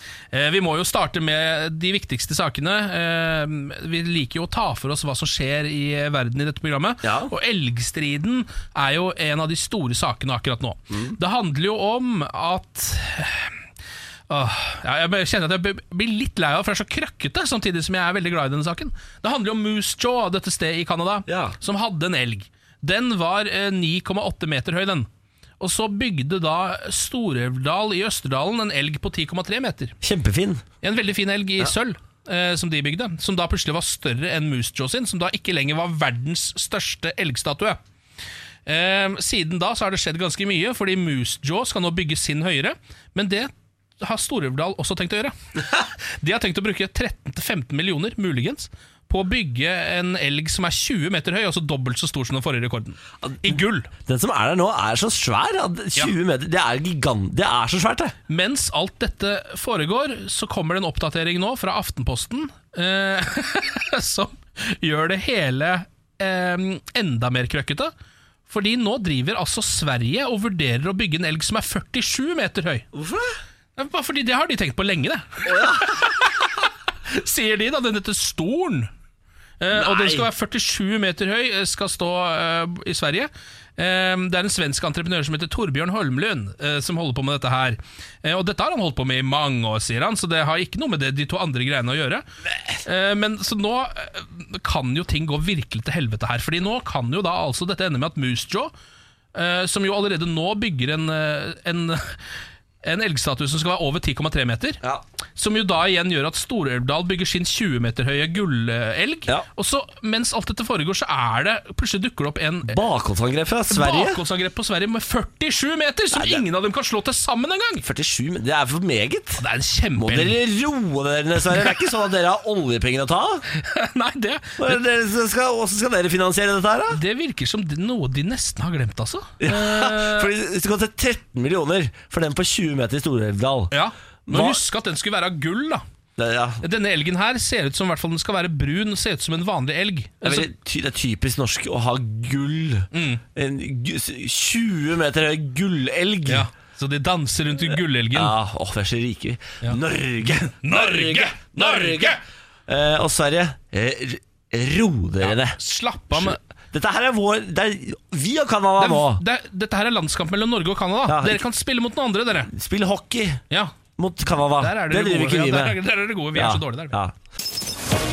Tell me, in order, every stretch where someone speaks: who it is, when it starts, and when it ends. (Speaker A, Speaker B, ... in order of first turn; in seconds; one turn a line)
Speaker A: 0.3-13.5
Speaker B: 7.0-7.3
Speaker B: 10.9-11.2
Speaker A: 14.3-25.1
Speaker B: 21.3-21.6
Speaker A: 25.6-29.9
Speaker B: 30.0-30.6
Speaker A: 30.8-37.8
Speaker A: 38.6-53.9
Speaker B: 53.2-58.1
Speaker A: 58.3-67.9
Speaker A: 68.5-72.9
Speaker B: 72.9-73.4
Speaker A: 73.8-76.5
Speaker B: 75.4-76.0
Speaker A: 77.1-78.9
Speaker A: 79.6-92.2
Speaker B: 79.7-80.3
Speaker A: 92.8-98.7
Speaker A: 99.3-102.2
Speaker A: 102.8-104.8
Speaker A: 105.3-112.8
Speaker B: 112.6-114.2
Speaker A: 113.7-117.8
Speaker B: 116.1-116.4
Speaker B: 117.8-119.4
Speaker A: 119.4-120.4
Speaker B: 120.0-123.4
Speaker A: 123.5-124.8
Speaker B: 124.6-127.0
Speaker A: 126.9-130.3
Speaker B: 129.4-133.7
Speaker A: 133.7-135.8
Speaker B: 134.3-134.6
Speaker B: 136.2-136.6
Speaker A: 136.6-140.5
Speaker B: 140.2-146.4
Speaker A: 142.9-143.2
Speaker A: 146.3-148.3
Speaker B: 148.1-155.6
Speaker A: 150.4-152.2
Speaker A: 155.2-156.4
Speaker B: 156.1-159.2
Speaker A: 158.8-162.5
Speaker B: 161.1-161.4
Speaker B: 162.5-163.4
Speaker A: 163.5-163.8
Speaker B: 164.0-165.8
Speaker A: 164.6-167.0
Speaker B: 166.3-167.2